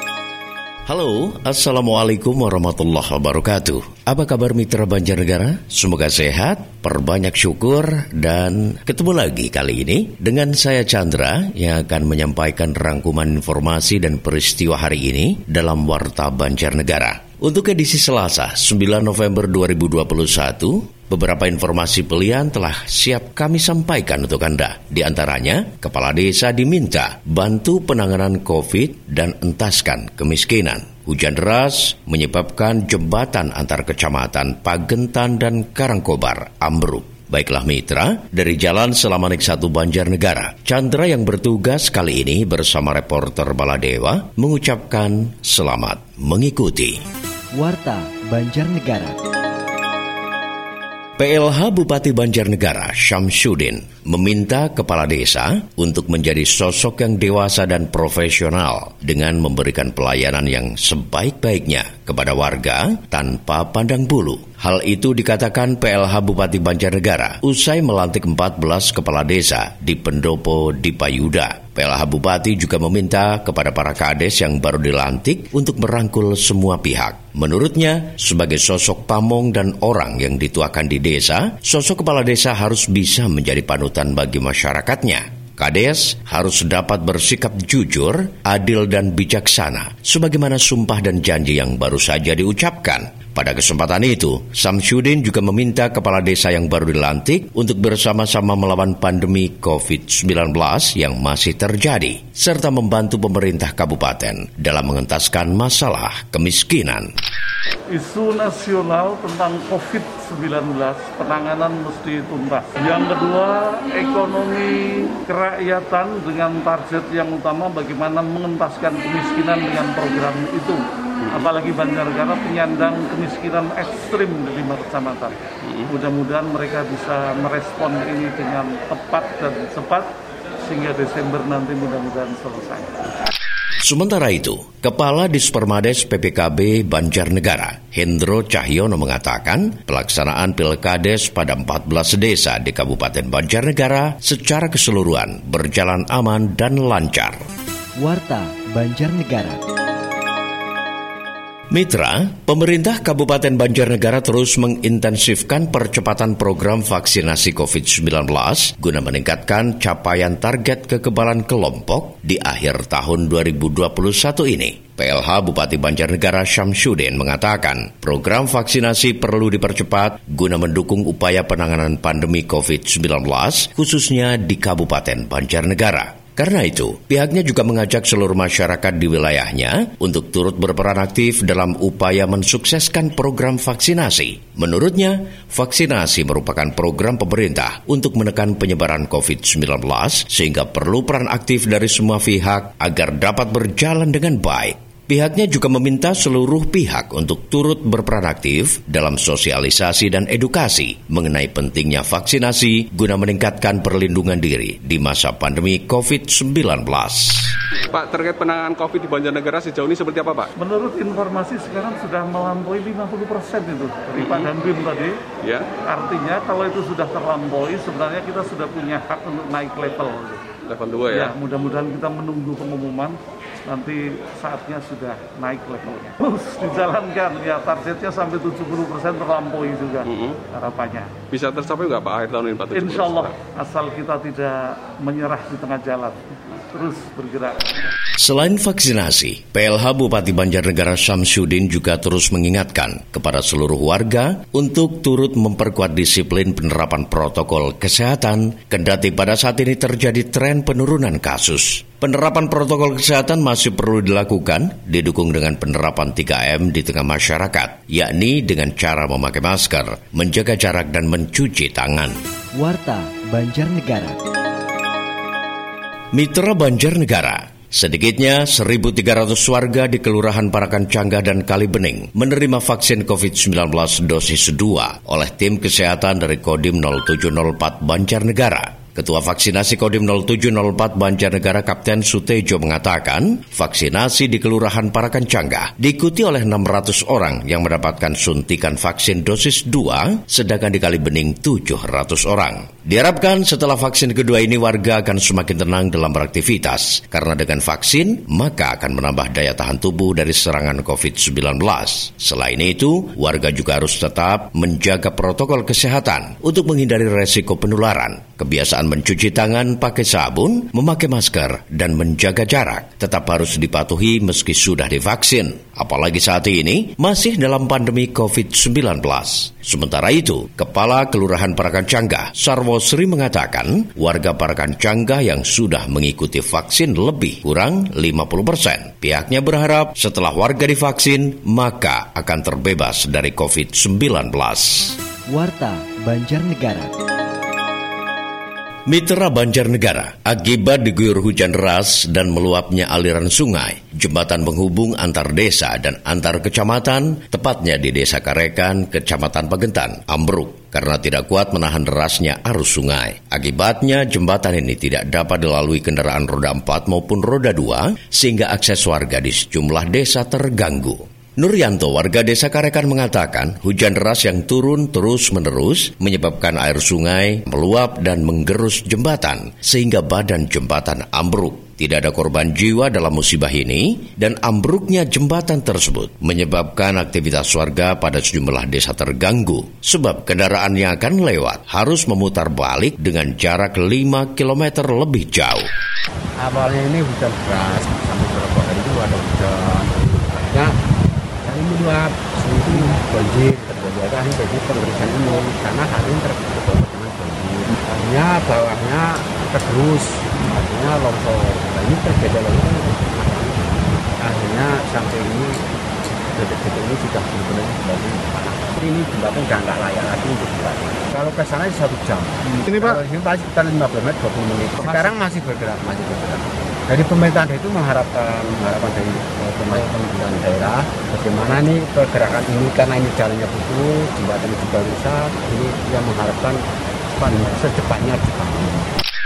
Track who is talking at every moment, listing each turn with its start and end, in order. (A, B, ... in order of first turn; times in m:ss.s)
0:00.9-0:47.0 A
0:47.6-0:49.2 B
0:51.2-1:47.1 A
1:47.9-2:13.0 C
2:13.8-2:27.4 A
2:28.0-2:29.6 B
2:31.7-3:27.6 A
3:27.9-3:30.5 D
3:30.6-3:40.5 C
3:34.2-3:34.5 D
3:35.4-3:35.7 D
3:40.6-3:41.3 D
3:41.0-3:51.2 C
3:50.1-3:50.4 D
3:51.3-3:53.4 D
3:52.6-3:57.7 C
3:58.2-4:22.2 A
4:22.6-4:24.2 B
4:26.1-5:35.0 A
5:35.3-5:36.9 B
5:38.9-6:25.7 A
6:26.4-6:30.8 E
6:31.4-6:45.6 E
6:46.3-7:08.9 E